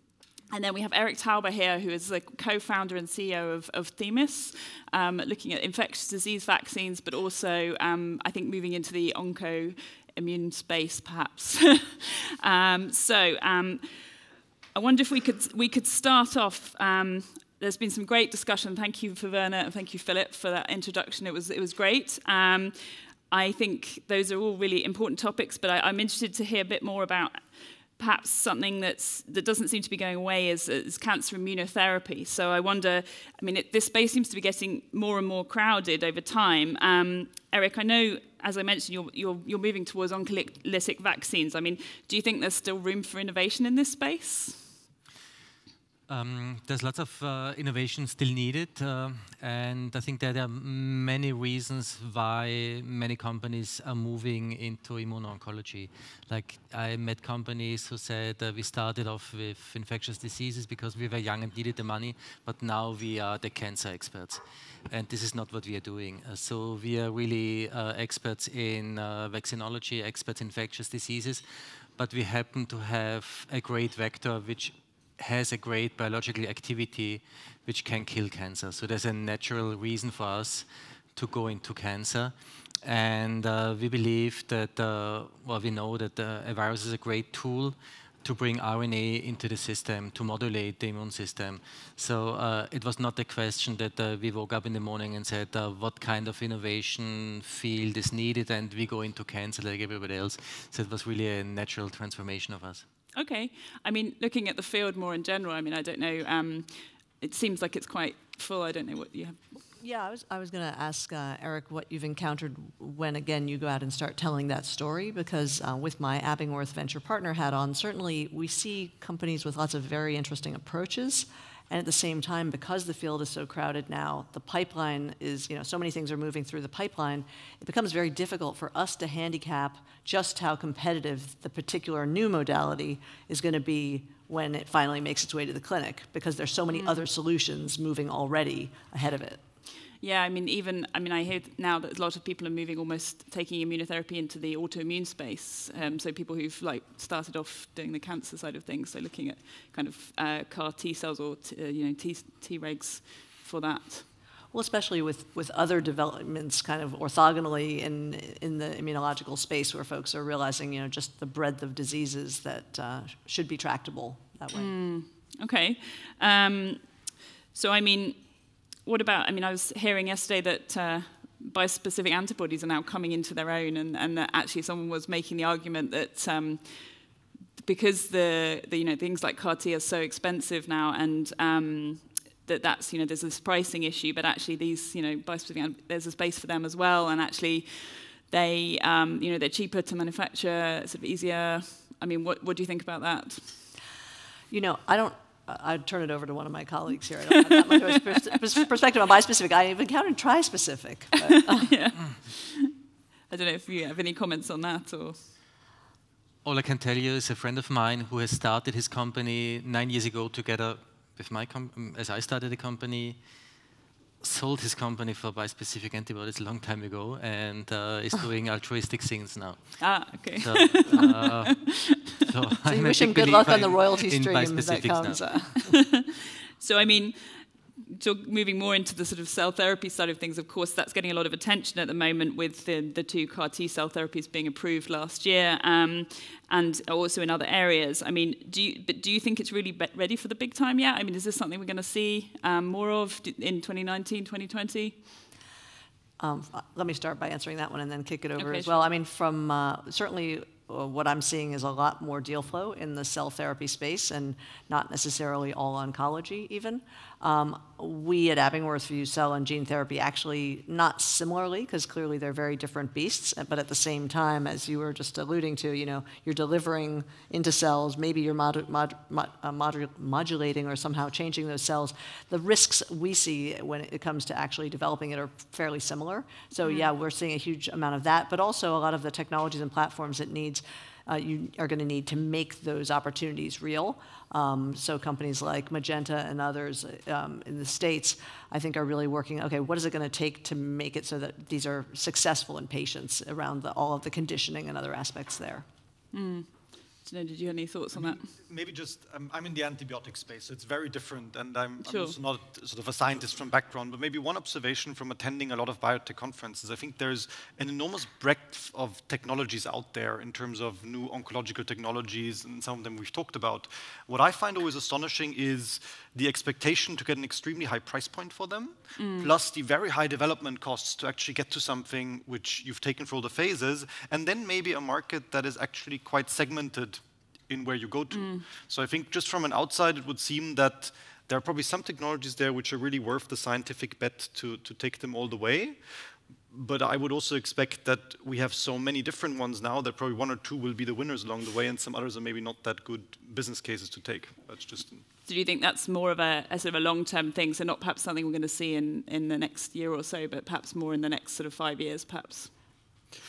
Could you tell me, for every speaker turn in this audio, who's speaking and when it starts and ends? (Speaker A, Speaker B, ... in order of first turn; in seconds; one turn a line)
Speaker A: 0.5-14.1
Speaker A: 14.7-44.7
Speaker B: 46.1-102.8
Speaker A: 103.2-109.4
Speaker C: 109.8-139.4
Speaker A: 136.7-137.0
Speaker A: 140.0-154.0
Speaker C: 154.5-164.7
Speaker A: 164.5-193.6
Speaker C: 194.5-201.7
Speaker A: 197.4-198.3
Speaker A: 201.3-202.7
Speaker A: 203.3-205.2
Speaker B: 206.4-213.2
Speaker B: 214.2-225.2
Speaker A: 219.8-222.0
Speaker C: 222.7-225.7
Speaker A: 225.7-245.1
Speaker C: 246.2-295.6
Speaker A: 248.4-248.8
Speaker A: 276.6-276.9
Speaker A: 296.1-298.3
Speaker D: 297.9-345.0
Speaker A: 301.8-302.1
Speaker A: 318.9-319.3
Speaker A: 328.1-328.4
Speaker A: 345.2-352.5